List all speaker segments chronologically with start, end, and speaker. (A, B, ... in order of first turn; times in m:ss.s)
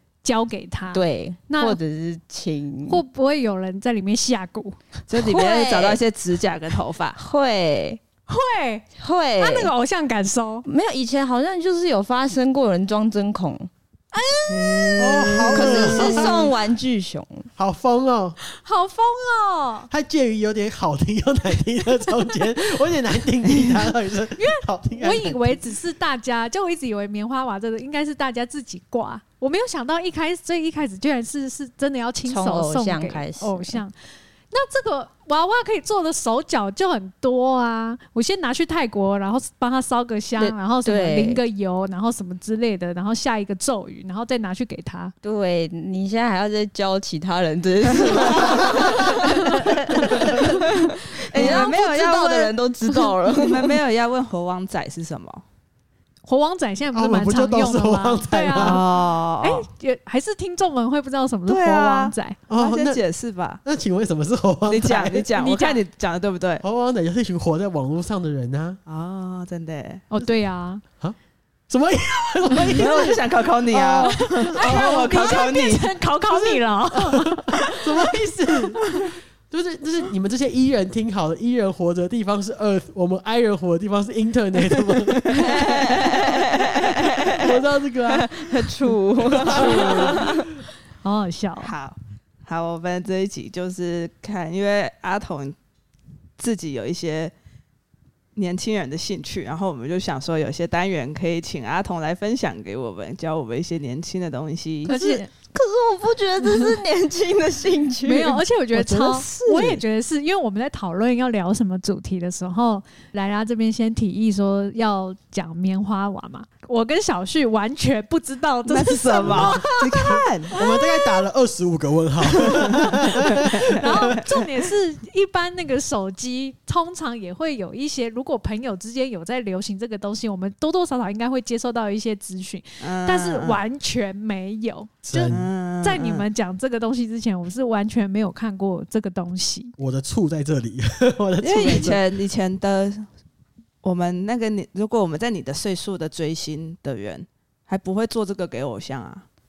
0:00.2-0:01.8 A
0:00.9-0:03.0 B
0:02.9-0:05.5 A
0:05.1-0:07.2 C
0:05.3-0:06.0 B
0:07.2-0:08.0 B
0:08.3-0:08.8 A
0:09.0-0:09.7 B
0:09.4-0:10.6 A
0:10.6-0:13.7 B
0:14.5-0:17.5 B
0:14.5-0:14.9 A
0:14.8-0:16.5 C
0:15.0-0:16.5 D
0:17.6-0:18.4 D
0:18.5-0:19.9 A
0:19.9-0:25.6 D
0:23.5-0:23.8 C
0:24.4-0:33.9 A
0:32.3-0:33.8 B
0:34.5-0:45.1 A
0:40.4-0:41.4 B
0:45.2-0:53.8 B
0:48.0-0:50.7 C
0:49.0-0:50.8 A
0:51.3-0:52.5 C
0:51.4-0:51.6 A
0:53.2-0:55.4 C
0:56.2-1:02.4 A
0:56.9-0:58.8 D
0:58.6-0:59.6 C
1:01.5-1:03.6 C
1:02.5-1:03.0 D
1:03.6-1:05.3 D
1:04.7-1:06.6 C
1:05.4-1:05.8 A
1:06.6-1:08.8 D
1:08.9-1:10.0 C
1:10.1-1:10.8 A
1:11.7-1:15.3 D
1:12.7-1:16.0 C
1:13.9-1:18.3 A
1:16.3-1:25.4 D
1:25.2-1:30.5 B
1:25.3-1:26.8 C
1:27.4-1:28.7 D
1:29.2-1:30.3 C
1:29.4-1:30.4 D
1:31.0-1:31.7 A
1:31.6-1:35.6 C
1:36.4-1:37.3 C
1:38.3-1:44.9 C
1:44.8-1:45.3 A
1:44.9-1:48.4 B
1:46.4-1:46.8 A
1:48.0-2:01.2 A
1:48.8-1:49.8 D
1:58.7-2:00.5 C
1:59.2-2:04.2 D
2:02.4-2:04.2 C
2:02.6-2:19.8 A
2:12.8-2:13.6 C
2:15.1-2:15.5 D
2:15.2-2:16.2 C
2:19.8-2:22.0 D
2:21.4-2:23.1 C
2:23.8-2:29.2 C